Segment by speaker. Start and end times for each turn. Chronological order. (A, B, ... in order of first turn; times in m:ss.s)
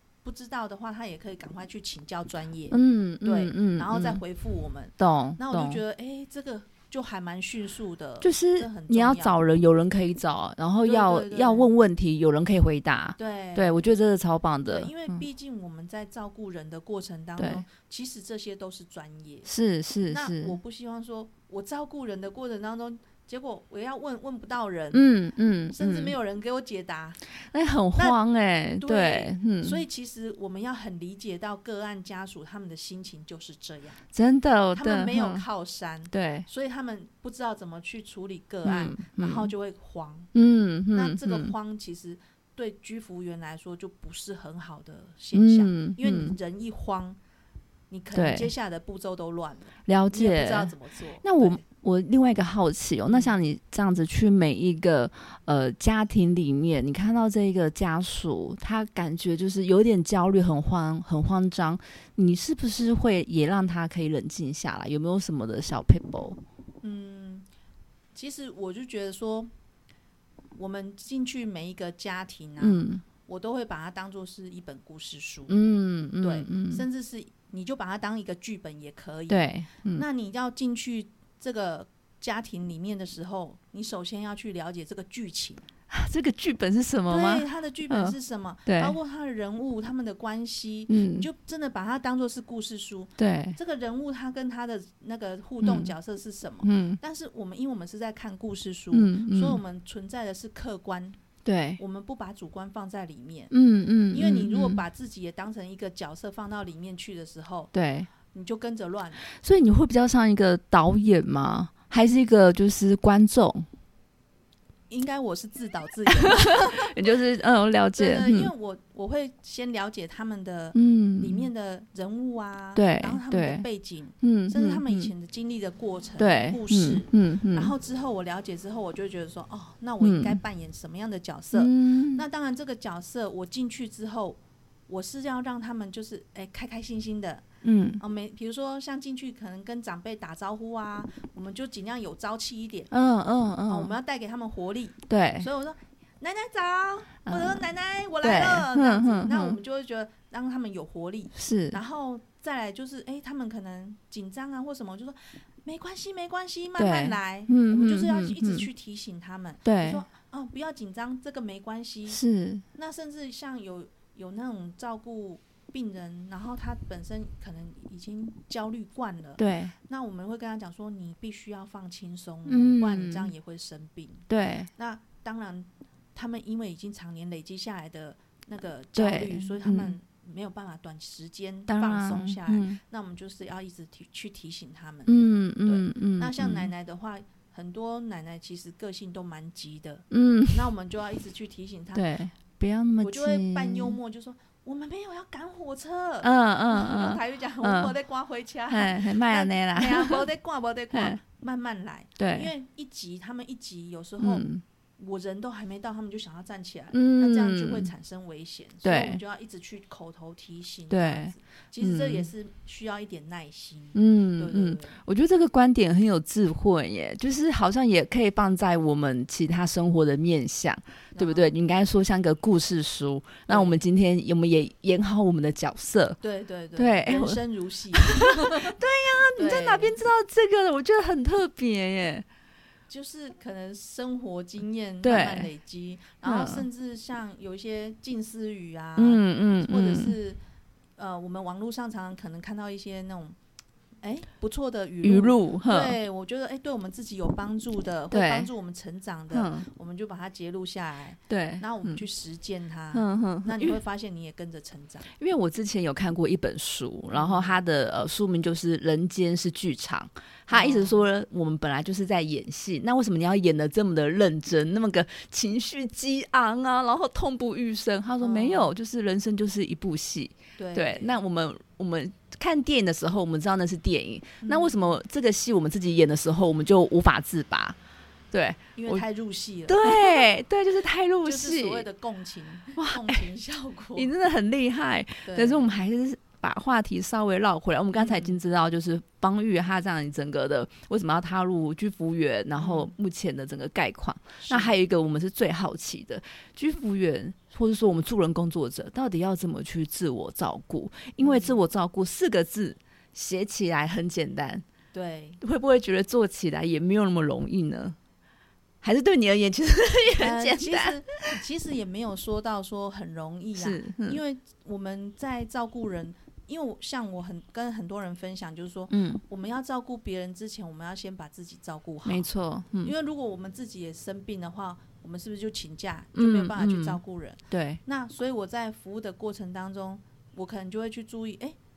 0:00.2-0:09.4 A
0:02.7-0:04.2 B
0:05.0-0:05.8 B
0:08.2-0:15.2 B
0:10.8-0:11.7 A
0:13.2-0:13.9 A
0:14.7-0:19.5 A
0:17.4-0:17.6 B
0:19.4-0:20.6 B
0:20.1-0:25.1 A
0:24.9-0:26.2 B
0:25.7-0:27.2 A
0:27.3-0:29.8 B
0:28.8-0:34.0 A
0:34.1-0:35.4 B
0:34.7-0:40.3 A
0:36.1-0:36.5 B
0:38.6-0:39.5 B
0:40.3-0:41.5 B
0:40.9-0:47.2 A
0:45.3-0:46.4 B
0:47.9-0:51.6 A
0:48.1-0:48.5 B
0:49.9-1:06.4 B
1:06.8-1:07.5 A
1:08.2-1:09.5 A
1:10.6-1:15.6 A
1:12.6-1:13.0 B
1:15.5-1:16.8 B
1:16.2-1:25.6 A
1:19.3-1:20.0 B
1:25.9-1:29.0 B
1:27.1-1:41.2 A
1:30.9-1:31.3 B
1:33.2-1:33.6 B
1:35.6-1:35.9 B
1:36.6-1:37.0 B
1:38.9-1:39.6 B
1:41.4-1:41.8 B
1:41.8-1:43.5 A
1:43.5-1:44.8 B
1:44.1-1:47.7 A
1:47.7-1:48.1 B
1:48.3-1:49.3 A
1:49.3-1:53.7 B
1:54.9-1:57.0 A
1:56.1-1:58.5 B
1:58.0-2:17.4 A
2:00.7-2:01.5 B
2:02.8-2:03.6 B
2:04.2-2:05.1 B
2:06.2-2:07.7 B
2:10.0-2:10.4 B
2:11.5-2:12.2 B
2:17.6-2:18.0 B
2:18.0-2:22.9 A
2:22.9-2:23.9 B
2:23.7-2:42.2 A
2:25.1-2:25.5 B
2:27.3-2:27.6 B
2:28.2-2:29.6 B
2:31.3-2:31.8 B
2:36.8-2:38.7 B
2:39.6-2:40.0 B
2:42.1-2:42.6 B
2:42.8-3:12.1 A
2:49.4-2:49.7 B
2:52.5-2:53.3 B
2:54.3-2:54.7 B
2:59.0-2:59.9 B
3:01.7-3:02.8 B
3:05.1-3:06.7 B
3:10.1-3:10.7 B
3:11.9-3:14.0 B
3:13.0-3:35.0 A
3:16.2-3:17.9 B
3:18.7-3:20.2 B
3:20.9-3:21.2 B
3:22.2-3:22.5 B
3:24.2-3:24.6 B
3:26.9-3:27.9 B
3:28.8-3:29.2 B
3:30.9-3:32.3 B
3:33.9-3:46.2 B
3:41.2-3:41.6 A
3:43.5-3:43.8 A
3:46.2-3:48.8 A
3:46.8-3:47.4 B
3:47.9-3:52.3 B
3:49.3-3:50.0 A
3:52.9-4:00.4 A
3:55.0-3:55.5 B
3:56.2-3:56.6 B
3:59.0-4:00.2 B
4:01.0-4:03.4 A
4:04.0-4:15.1 A
4:05.0-4:06.0 B
4:08.1-4:08.5 B
4:09.3-4:09.7 B
4:11.3-4:12.0 B
4:12.9-4:13.8 B
4:15.2-4:37.8 B
4:17.1-4:17.6 A
4:20.5-4:21.0 A
4:28.2-4:28.7 A
4:30.6-4:31.1 A
4:34.4-4:35.0 A
4:38.3-4:39.0 B
4:38.8-4:40.3 A
4:39.7-4:41.9 B
4:41.2-4:44.1 A
4:42.8-4:43.3 B
4:43.9-5:04.6 B
4:45.2-4:45.7 A
4:47.9-4:48.4 A
4:52.6-4:52.9 A
4:54.4-4:54.7 A
5:01.2-5:01.6 A
5:04.9-5:05.4 A
5:05.4-5:08.0 B
5:08.8-5:11.4 B
5:10.2-5:22.3 A
5:13.6-5:14.2 B
5:18.9-5:19.2 B
5:22.0-5:22.9 B
5:22.8-5:31.6 A
5:26.2-5:27.8 B